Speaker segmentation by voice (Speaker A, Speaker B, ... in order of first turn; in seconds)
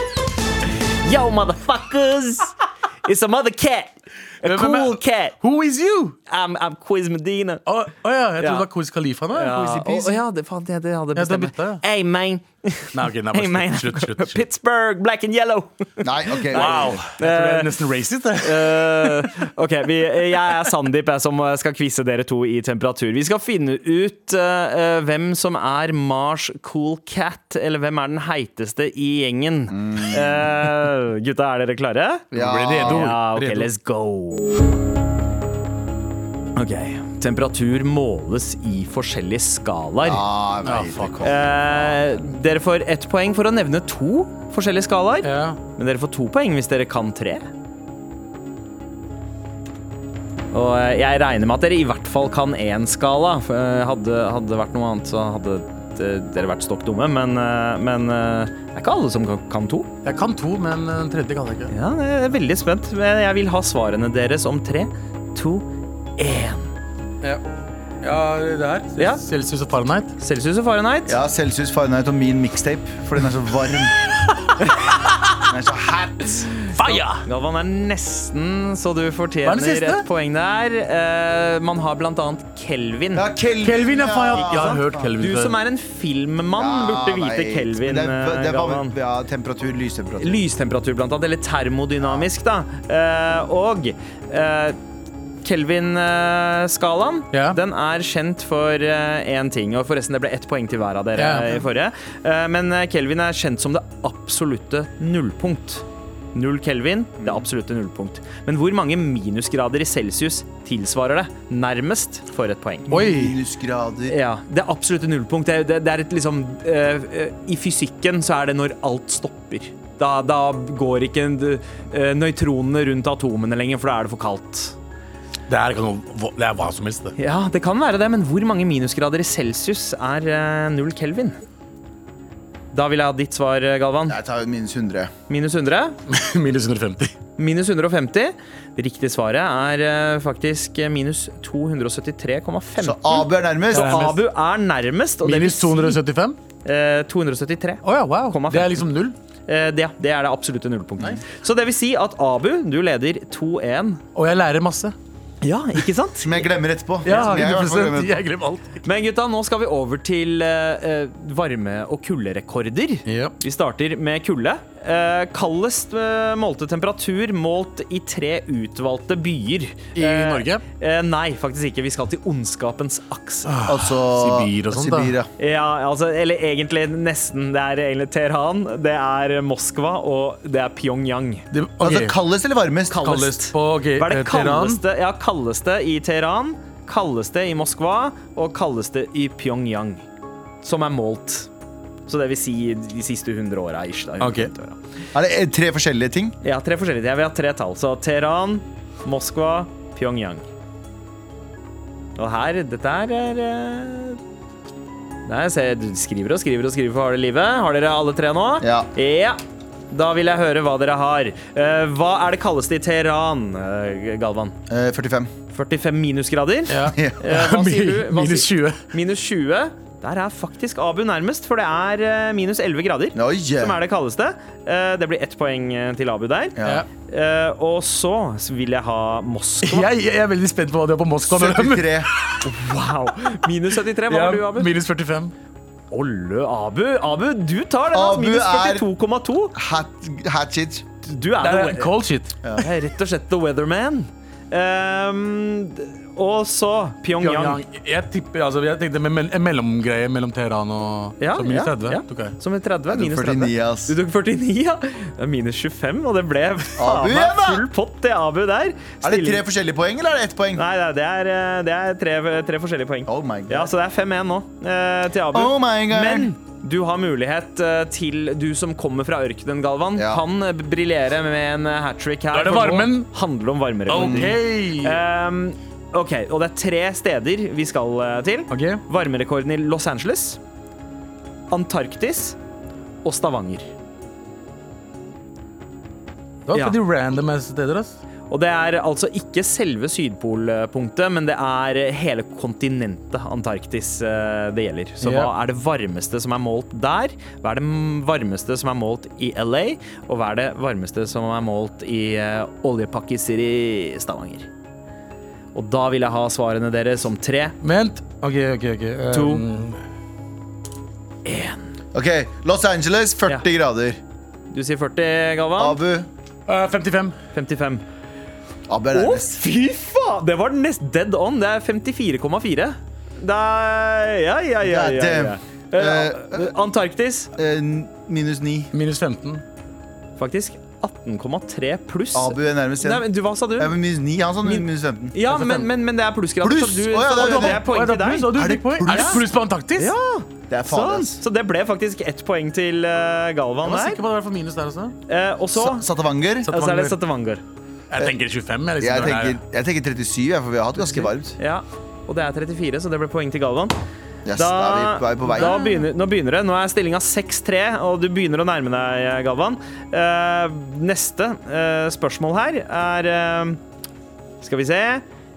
Speaker A: 1.0-5.4, 6.3-7.6, 8.4-8.7, 9.3-17.8, 18.4-32.3, 32.8-34.6, 36.6-40.2, 41.2-47.5, 50.5-59.9, 61.7-66.7, 69.0-69.2, 70.2-71.2, 76.8-83.3, 84.3-89.0, 90.2-94.8, 95.4-112.9, 114.1-124.8, 127.2-131.4, 132.7-134.2, 135.3-136.0, 137.4-146.0, 146.7-148.8, 149.5-154.0, 155.4-156.5, 157.1-157.4, 158.8-173.6, 175.4-181.4, 182.9-190.1, 190.6-191.5, 192.1-194.8, 196.4-200.4, 202.2-204.2, 205.3-209.4, 209.9-214.6, 215.5-226.6, 227.1-229.9, 232.4-234.7, 235.9-239.6, 241.0-241.9, 242.6-247.6, 251.2-259.4, 260.6-280.4, 281.5-282.4, 283.0-283.7, 288.3-304.5, 305.6-307.6, 309.1-309.4, 311.3-311.7, 314.5-315.8, 317.3-317.8, 318.9-327.3, 330.2-333.8, 334.4-338.3, 338.9-339.2, 339.8-344.0, 345.1-345.9, 346.5-347.4, 350.9-353.8, 354.4-363.6, 364.4-365.0
Speaker B: 4.4-6.2, 7.7-9.8, 11.2-11.8, 12.9-14.4, 16.5-19.3, 32.3-33.7, 40.6-41.2, 45.2-45.6, 60.0-61.7, 68.0-70.2, 76.7-77.2, 79.5-80.1, 83.6-85.6, 97.3-97.6, 101.2-101.6, 112.9-113.4, 125.5-127.2, 136.1-137.1, 143.7-144.2, 145.2-146.4, 147.8-149.2, 154.2-154.9, 157.1-158.8, 163.1-163.4, 170.0-170.6, 173.5-175.2, 181.5-182.2, 183.0-184.8, 194.2-194.5, 216.7-218.8, 229.6-232.5, 234.1-235.3, 241.4-242.4, 247.2-252.4, 272.3-273.1, 273.9-275.0, 278.5-278.8, 286.5-288.0, 295.0-295.3, 307.6-309.8, 316.5-317.2, 328.7-329.4, 335.3-335.7, 337.2-339.9, 343.6-345.0, 346.4-347.0, 347.9-349.4
Speaker C: 9.6-10.2, 16.0-17.0, 29.7-30.5, 32.3-33.1, 40.0-42.2, 71.1-74.0, 75.5-76.5, 83.2-85.1, 86.5-90.4, 92.0-92.3, 107.2-107.5, 112.9-114.2, 134.1-135.1, 142.8-144.1, 156.2-158.2, 173.7-175.3, 181.8-183.1, 195.1-196.4, 208.6-208.9, 214.7-215.3, 223.1-223.8, 226.6-226.9, 231.3-232.1, 237.9-238.9, 239.6-240.9, 252.9-253.9, 256.8-257.6, 259.0-260.6, 263.1-263.7, 265.3-266.3, 269.9-270.2, 273.9-274.4, 311.9-314.0, 315.6-316.1, 318.7-319.4, 324.6-326.5, 327.4-328.7, 332.1-335.1, 336.4-337.6, 338.3-339.3, 340.5-341.2, 345.5-346.5, 348.8-351.4, 354.3-355.6